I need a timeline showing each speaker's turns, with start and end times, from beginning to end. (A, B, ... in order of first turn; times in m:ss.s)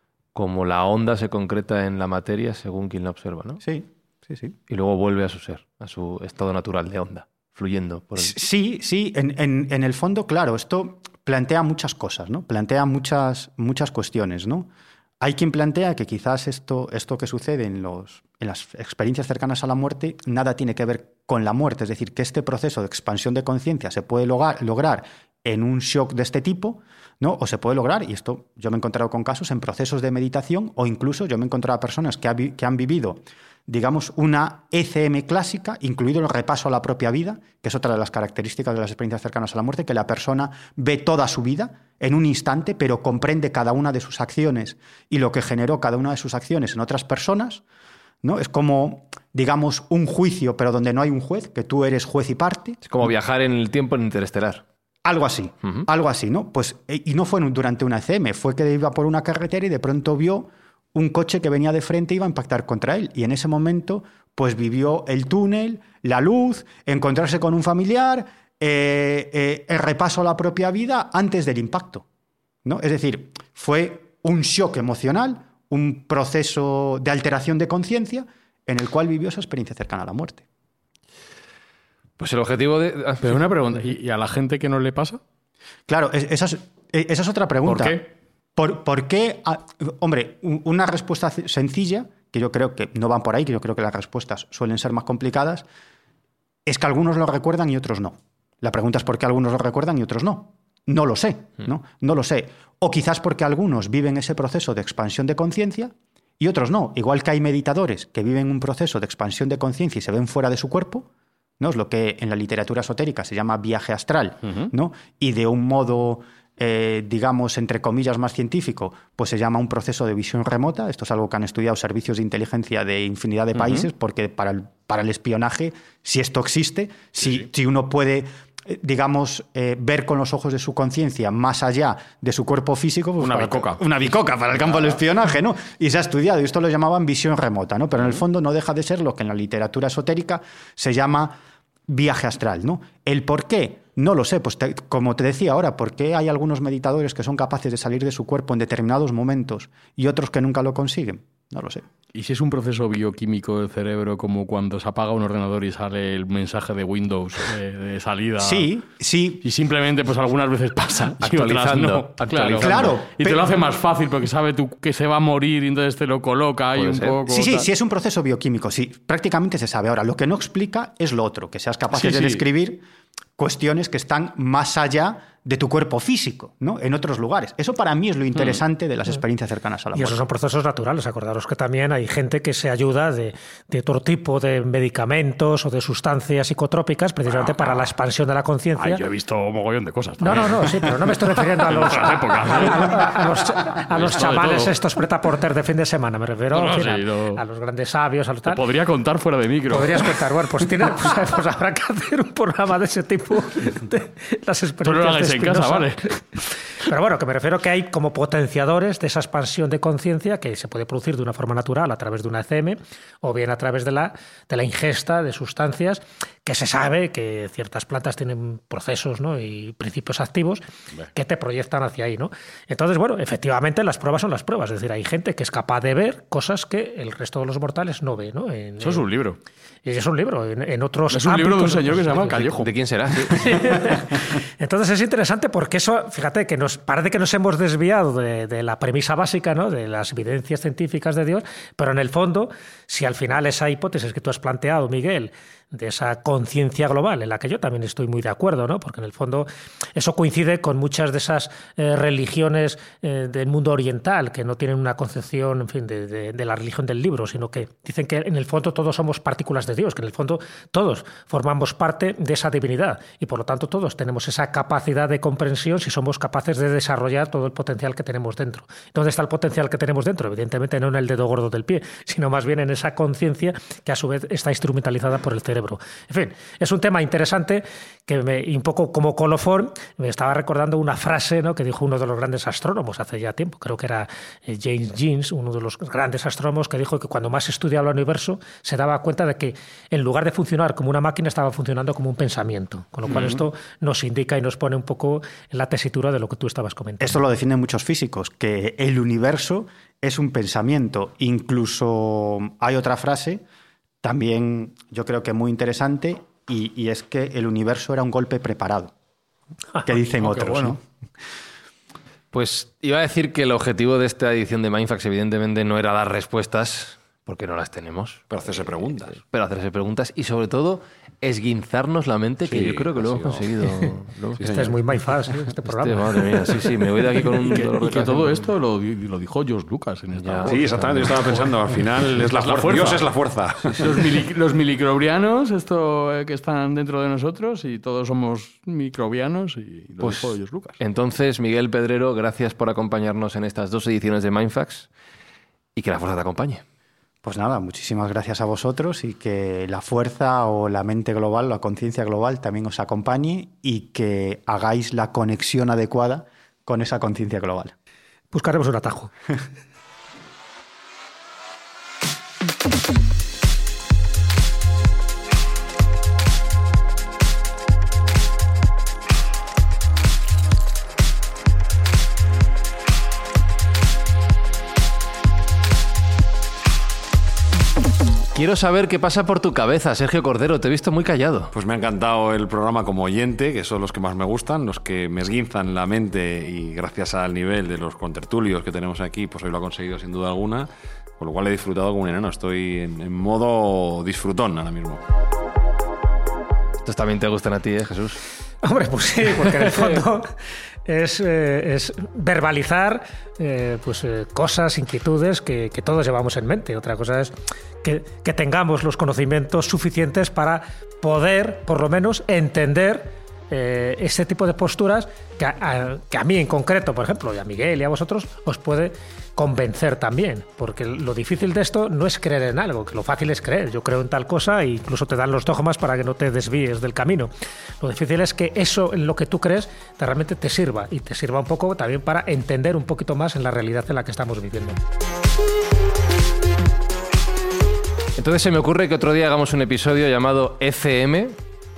0:00.3-0:03.6 A
0:03.6-0:04.5 B
0:04.7-0:08.4 A
0:08.2-0:14.7 B
0:15.2-0:47.6 B
0:48.2-0:52.8 B
0:52.8-0:54.6 A
0:55.0-1:12.0 B
1:12.6-1:20.4 B
1:22.2-1:23.5 A
1:23.2-1:25.2 C
1:25.9-1:35.6 B
1:27.6-1:28.0 C
1:36.6-1:51.1 B
1:51.6-2:31.8 B
1:54.4-1:54.7 C
2:03.5-2:03.9 C
2:13.2-2:14.9 C
2:32.1-2:38.7 C
2:38.4-2:39.4 B
2:39.4-2:47.7 C
2:41.2-2:43.0 A
2:42.6-2:43.5 B
2:46.7-2:47.2 A
2:47.3-2:52.8 B
2:51.9-2:52.4 C
2:53.4-3:00.2 B
2:59.9-3:09.0 D
3:08.8-3:14.8 C
3:10.2-3:18.6 D
3:16.5-3:17.4 C
3:18.4-3:20.2 C
3:19.7-3:26.0 D
3:24.8-3:26.2 C
3:26.8-3:40.6 D
3:41.1-3:49.1 D
3:48.8-3:49.4 C
3:49.8-3:52.5 D
3:51.1-3:52.7 C
3:52.5-3:53.7 A
3:53.3-4:57.2 D
4:53.1-4:53.4 B
4:57.0-5:03.4 B
5:04.0-5:08.9 B
5:09.7-5:10.5 D
5:09.8-5:10.8 B
5:12.3-5:18.3 A
5:18.3-5:19.2 E
5:19.1-5:24.5 A
5:22.4-5:23.5 E
5:24.4-5:24.7 E
5:24.4-5:26.3 D
5:25.6-5:28.5 A
5:27.5-5:31.5 C
5:30.1-5:31.5 A
5:30.5-5:34.2 E
5:32.2-5:33.1 C
5:33.8-5:40.8 C
5:40.0-5:44.9 A
5:45.8-5:46.6 A
5:47.2-5:57.7 B
5:58.3-5:59.1 D
6:18.3-6:21.5 A
6:21.5-6:35.0 E
6:36.8-6:38.2 A
6:38.6-6:40.3 D
6:40.8-7:14.8 D
7:18.2-7:21.4 A